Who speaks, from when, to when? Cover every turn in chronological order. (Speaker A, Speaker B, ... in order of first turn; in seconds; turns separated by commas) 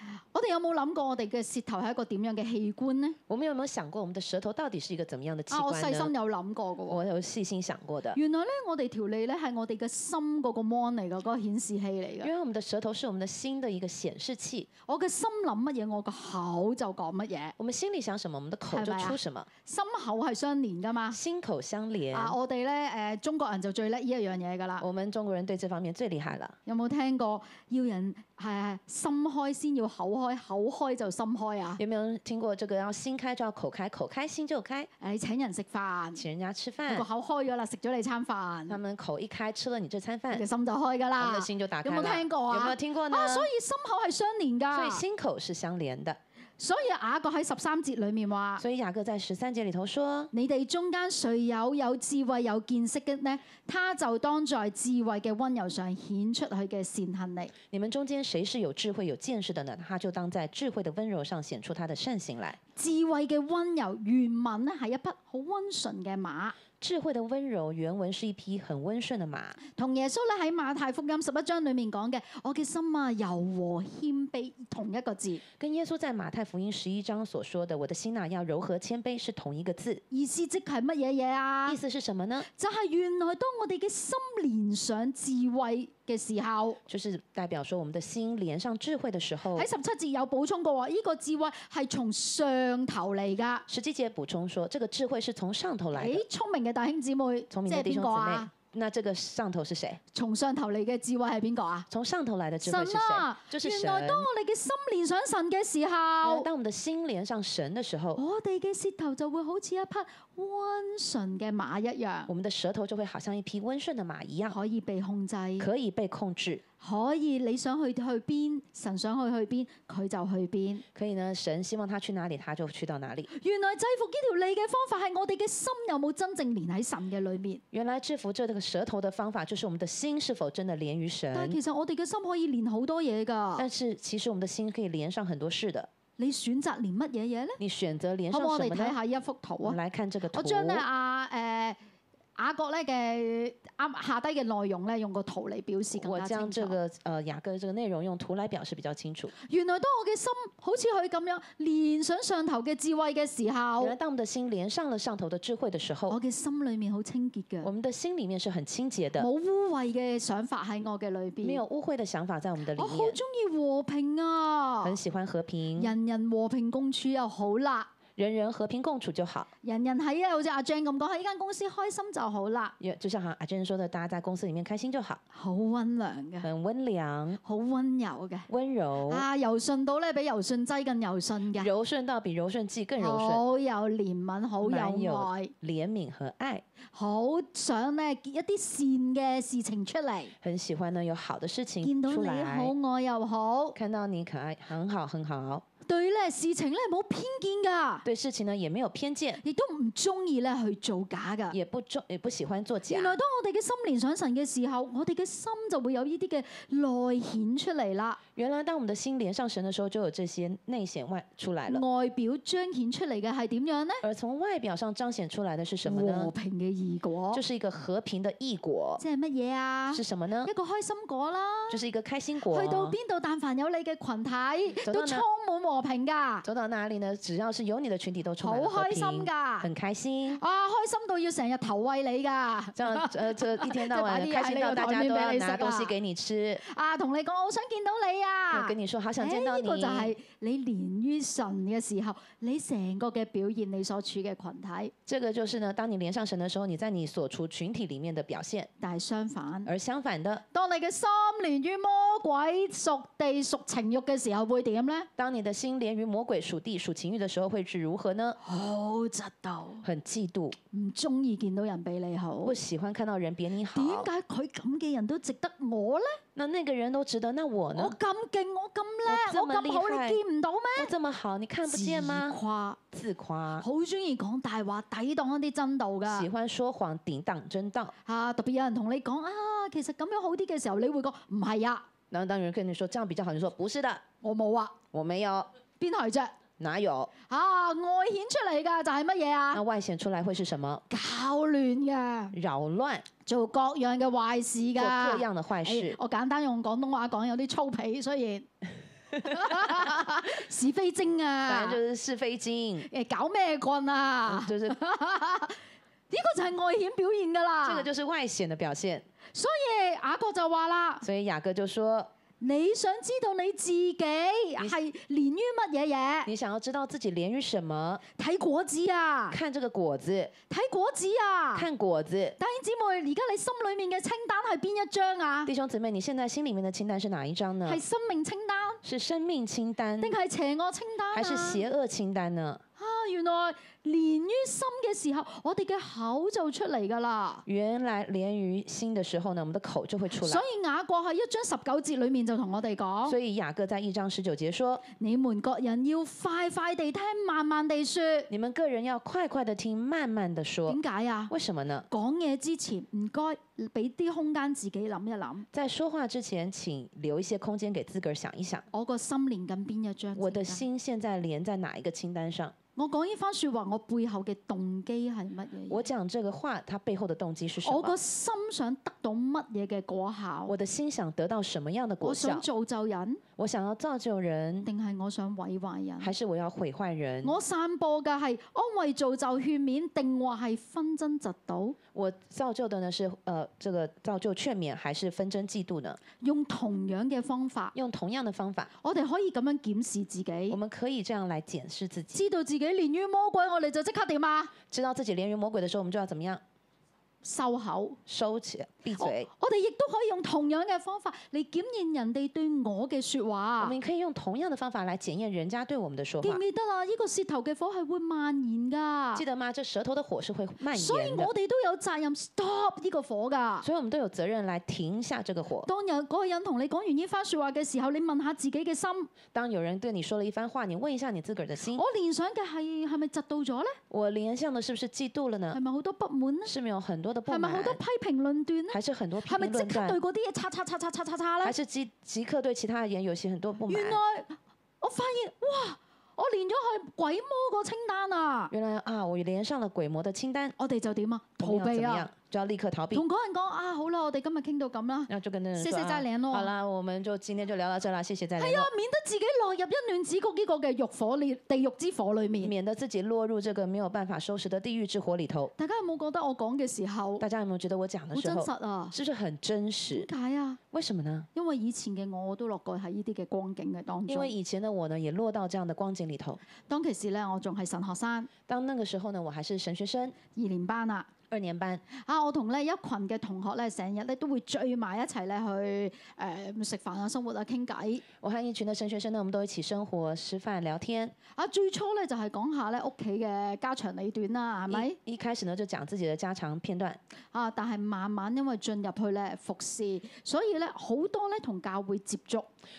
Speaker A: 0.3-3.2, Speaker B: 3.3-6.1, Speaker A: 5.5-7.0, Speaker B: 6.9-8.2, Speaker A: 8.1-12.3, Speaker B: 12.2-14.7, Speaker A: 14.9-17.6, Speaker B: 17.6-19.5, Speaker A: 18.7-21.2, Speaker B: 21.1-22.4, Speaker A: 22.1-24.9, Speaker B: 24.8-26.6, Speaker A: 26.7-31.8, Speaker B: 31.8-34.9, Speaker A: 35.0-36.2, Speaker B: 36.2-37.1, Speaker A: 36.9-38.8, Speaker B: 38.7-40.5, Speaker A: 40.3-45.0, Speaker B: 41.2-43.5, Speaker B: 44.7-46.2, Speaker A: 46.6-48.6, Speaker B: 48.6-50.3, Speaker A: 50.3-57.5, Speaker B: 57.7-62.6, Speaker A: 62.8-66.6, Speaker B: 66.8-69.6, Speaker A: 69.7-75.4, Speaker B: 75.6-80.0, Speaker A: 80.1-81.8, Speaker B: 81.7-82.5, Speaker A: 82.5-86.8, Speaker B: 86.9-89.7, Speaker A: 89.5-93.7, Speaker B: 93.7-96.2, Speaker A: 95.9-98.5, Speaker B: 97.5-100.0, Speaker A: 100.1-101.9, Speaker B: 101.9-104.3, Speaker A: 102.6-106.5, Speaker B: 106.2-108.2, Speaker A: 108.2-112.3, Speaker B: 112.3-114.6, Speaker A: 114.5-115.7, Speaker B: 115.6-116.6, Speaker A: 116.8-120.8, Speaker B: 121.0-123.3, Speaker A: 123.3-127.6, Speaker B: 127.7-131.6, Speaker A: 131.3-133.7, Speaker B: 133.6-135.9, Speaker A: 136.2-137.6, Speaker B: 137.6-139.0, Speaker A: 138.3-139.8, Speaker B: 139.6-140.8, Speaker A: 140.3-141.8, Speaker A: 142.4-146.8, Speaker B: 145.9-149.3, Speaker A: 149.4-153.9, Speaker B: 153.8-156.2, Speaker A: 156.1-157.7, Speaker B: 157.6-159.3, Speaker A: 159.2-161.6, Speaker B: 161.4-163.2, Speaker A: 162.8-165.0, Speaker B: 164.8-165.9, Speaker A: 165.8-167.9, Speaker B: 168.2-169.5, Speaker A: 169.6-172.8, Speaker B: 172.8-175.2, Speaker A: 175.3-176.5, Speaker B: 176.4-177.4, Speaker A: 177.4-178.5, Speaker B: 178.5-179.2, Speaker A: 179.1-181.7, Speaker B: 181.6-183.4, Speaker A: 183.0-185.5, Speaker B: 184.6-186.6, Speaker A: 186.9-190.3, Speaker B: 190.4-192.7, Speaker A: 191.8-193.8, Speaker B: 193.8-195.7, Speaker A: 195.9-198.1, Speaker B: 198.1-199.4, Speaker A: 199.4-201.6, Speaker B: 201.5-203.2, Speaker A: 202.9-208.2, Speaker B: 208.4-211.8, Speaker A: 211.7-214.0, Speaker B: 214.0-216.3, Speaker A: 215.8-217.4, Speaker B: 217.3-219.0, Speaker A: 219.0-221.8, Speaker B: 219.9-220.5, Speaker B: 221.7-223.0, Speaker A: 222.5-226.5, Speaker B: 224.8-225.2, Speaker B: 226.4-230.4, Speaker A: 228.4-229.7, Speaker A: 230.3-235.9, Speaker B: 232.8-236.6, Speaker A: 236.6-244.9, Speaker B: 238.5-240.1, Speaker B: 245.1-248.7, Speaker A: 248.8-249.7, Speaker B: 249.7-250.4, Speaker A: 250.5-255.1, Speaker B: 255.2-258.4, Speaker A: 258.4-259.9, Speaker B: 259.8-260.6, Speaker A: 260.7-262.6, Speaker B: 262.4-264.1, Speaker A: 263.7-266.2, Speaker B: 266.4-268.0, Speaker A: 267.8-270.9, Speaker B: 269.1-270.2, Speaker B: 270.8-272.4, Speaker A: 271.6-272.8, Speaker B: 272.9-273.7, Speaker A: 273.6-276.3, Speaker B: 276.1-277.9, Speaker A: 278.1-281.9, Speaker B: 282.1-284.0, Speaker A: 284.2-284.8, Speaker B: 284.9-285.5, Speaker A: 285.8-286.4, Speaker B: 286.6-287.1, Speaker A: 287.3-289.6, Speaker B: 289.5-290.8, Speaker A: 290.9-292.4, Speaker B: 292.3-293.1, Speaker A: 293.2-298.5, Speaker B: 294.8-296.0, Speaker A: 299.2-301.8, Speaker B: 299.3-299.8, Speaker B: 301.5-302.9, Speaker A: 302.9-305.6, Speaker B: 304.3-304.8, Speaker A: 306.1-307.9, Speaker B: 307.6-309.1, Speaker A: 309.3-311.1, Speaker B: 311.0-312.1, Speaker A: 312.4-316.3, Speaker B: 316.3-318.0, Speaker A: 318.2-319.4, Speaker B: 319.3-320.3, Speaker A: 320.5-321.7, Speaker B: 321.6-322.4, Speaker A: 322.4-325.5, Speaker B: 325.5-327.8, Speaker A: 327.6-328.8, Speaker B: 328.8-330.1, Speaker A: 330.0-331.6, Speaker B: 331.1-332.6, Speaker A: 332.8-337.4, Speaker B: 337.5-340.4, Speaker A: 340.1-343.2, Speaker B: 343.1-344.8, Speaker A: 344.9-348.3, Speaker B: 348.3-351.9, Speaker A: 350.7-351.3, Speaker A: 351.9-355.5, Speaker B: 355.5-358.7, Speaker A: 358.7-360.7, Speaker B: 360.2-362.6, Speaker A: 362.8-365.9, Speaker B: 365.7-368.0, Speaker A: 367.6-370.6, Speaker B: 370.5-372.5, Speaker A: 372.0-373.2, Speaker B: 373.4-374.7, Speaker A: 374.6-376.1, Speaker B: 376.0-377.4, Speaker A: 377.2-381.8, Speaker B: 381.9-386.0, Speaker A: 386.2-387.8, Speaker B: 387.8-388.7, Speaker A: 388.8-390.6, Speaker B: 390.5-392.2, Speaker A: 392.1-394.5, Speaker B: 394.7-396.4, Speaker A: 397.2-398.0, Speaker B: 398.1-399.3, Speaker A: 399.0-403.8, Speaker B: 403.6-406.4, Speaker A: 406.2-409.2, Speaker B: 409.1-411.3, Speaker A: 410.7-413.7, Speaker B: 413.6-415.7, Speaker A: 415.6-419.1, Speaker B: 419.3-421.8, Speaker A: 421.7-423.8, Speaker B: 423.9-425.6, Speaker A: 425.5-426.5, Speaker B: 426.4-427.8, Speaker A: 427.3-431.6, Speaker B: 428.7-430.0, Speaker B: 431.4-434.0, Speaker A: 433.7-438.5, Speaker B: 438.5-440.6, Speaker A: 440.6-442.1, Speaker B: 441.4-443.1, Speaker A: 442.9-446.5, Speaker B: 445.1-448.7, Speaker A: 448.4-452.5, Speaker B: 452.4-455.5, Speaker A: 455.6-457.3, Speaker B: 457.2-460.1, Speaker A: 458.1-459.0, Speaker A: 459.9-460.6, Speaker B: 460.7-461.3, Speaker A: 461.4-464.3, Speaker B: 464.1-466.4, Speaker A: 466.6-468.3, Speaker B: 468.5-470.2, Speaker A: 470.3-471.1, Speaker B: 471.3-471.8, Speaker A: 471.9-478.0, Speaker B: 478.2-481.1, Speaker A: 481.3-485.0, Speaker B: 484.7-487.0, Speaker A: 487.3-492.5